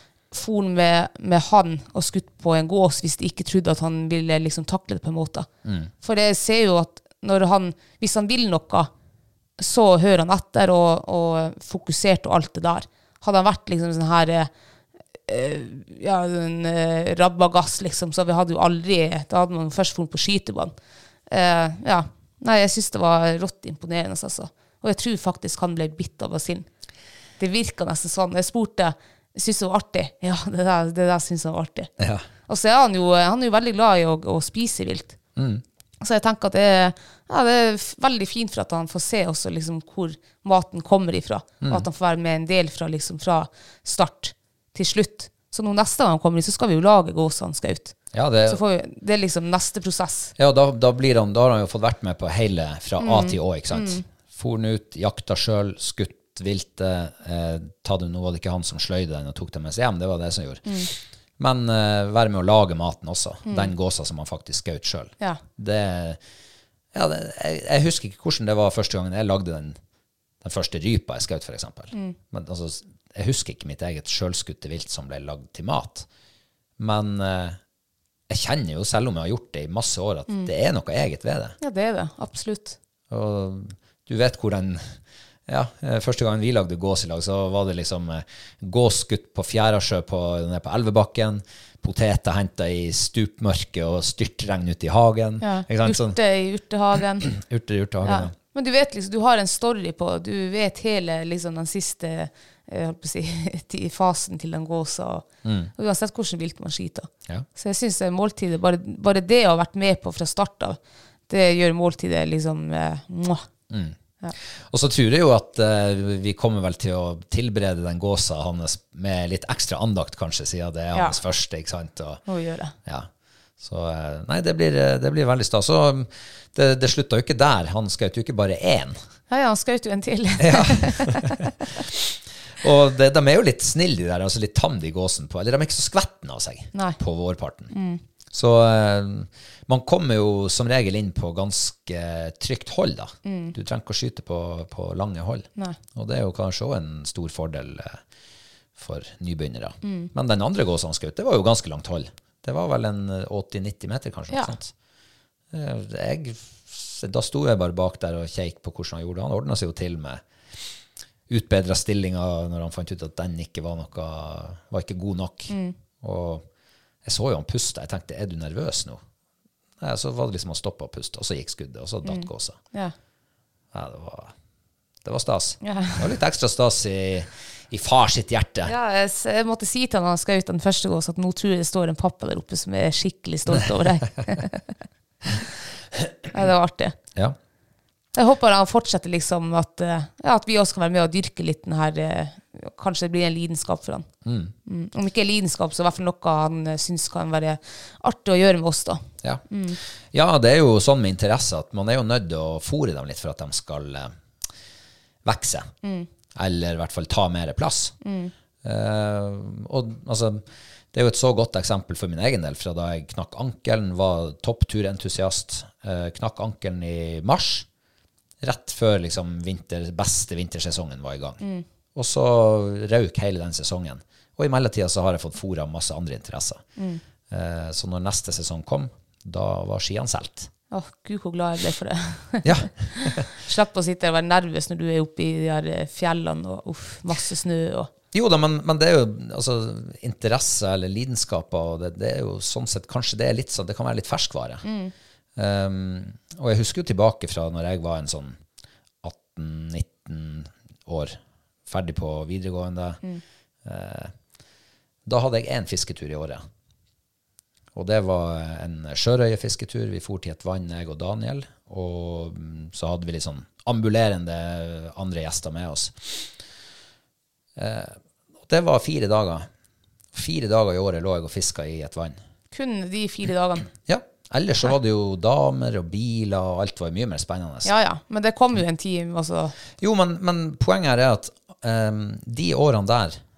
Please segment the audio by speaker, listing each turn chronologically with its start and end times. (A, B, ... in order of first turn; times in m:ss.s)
0:00.3-0:05.5 A
0:05.6-0:05.9 B
0:06.0-0:08.9 A
0:09.6-0:14.5 A
0:15.3-0:20.7 A
0:21.3-0:26.7 A
0:27.4-0:31.9 A
0:32.0-0:32.2 B
0:32.5-0:35.2 A
0:35.4-0:35.6 B
0:36.0-0:50.3 A
0:48.1-0:48.6 B
0:50.4-1:06.2 B
0:53.0-0:54.0 A
1:00.6-1:00.9 A
1:03.5-1:03.7 A
1:06.9-1:09.8 B
1:10.4-1:16.1 B
1:16.8-1:17.6 B
1:18.3-1:21.6 B
1:21.6-1:22.8 A
1:23.1-1:36.2 B
1:35.4-1:37.3 A
1:37.2-1:38.3 B
1:38.0-1:53.4 A
1:45.4-1:45.7 B
1:53.7-2:02.2 B
2:02.2-2:02.7 A
2:03.6-2:09.0 B
2:09.3-2:11.5 A
2:10.4-2:17.7 B
2:17.7-2:18.0 A
2:18.3-2:28.0 B
2:23.2-2:23.5 A
2:28.8-2:34.7 B
2:29.8-2:30.1 A
2:34.3-2:34.6 A
2:35.5-2:40.2 B
2:41.3-2:46.4 B
2:45.5-2:45.8 A
2:47.0-2:49.0 B
2:49.8-2:52.6 B
2:52.0-2:52.9 A
2:53.7-2:54.3 B
2:55.0-2:58.7 B
2:55.6-2:56.0 A
2:58.6-3:04.7 A
3:06.3-3:07.0 A
3:08.1-3:14.1 A
3:14.2-3:14.5 B
3:14.6-3:19.8 A
3:19.2-3:24.1 B
3:25.2-3:25.7 B
3:25.8-3:26.1 A
3:26.3-3:28.0 B
3:28.0-3:28.3 A
3:28.6-3:37.7 B
3:38.4-3:41.4 B
3:41.9-3:46.6 B
3:46.8-3:47.0 A
3:47.3-3:50.5 B
3:50.7-3:57.9 A
3:52.4-3:53.2 B
3:58.1-4:04.6 B
4:04.6-4:04.9 A
4:05.4-4:08.4 B
4:09.0-4:13.0 B
4:13.6-4:14.1 B
4:15.0-4:16.4 B
4:17.7-4:26.3 B
4:27.6-4:29.5 B
4:30.1-4:32.2 B
4:32.5-4:33.7 A
4:33.8-4:37.7 B
4:37.6-4:39.6 A
4:39.8-4:43.2 B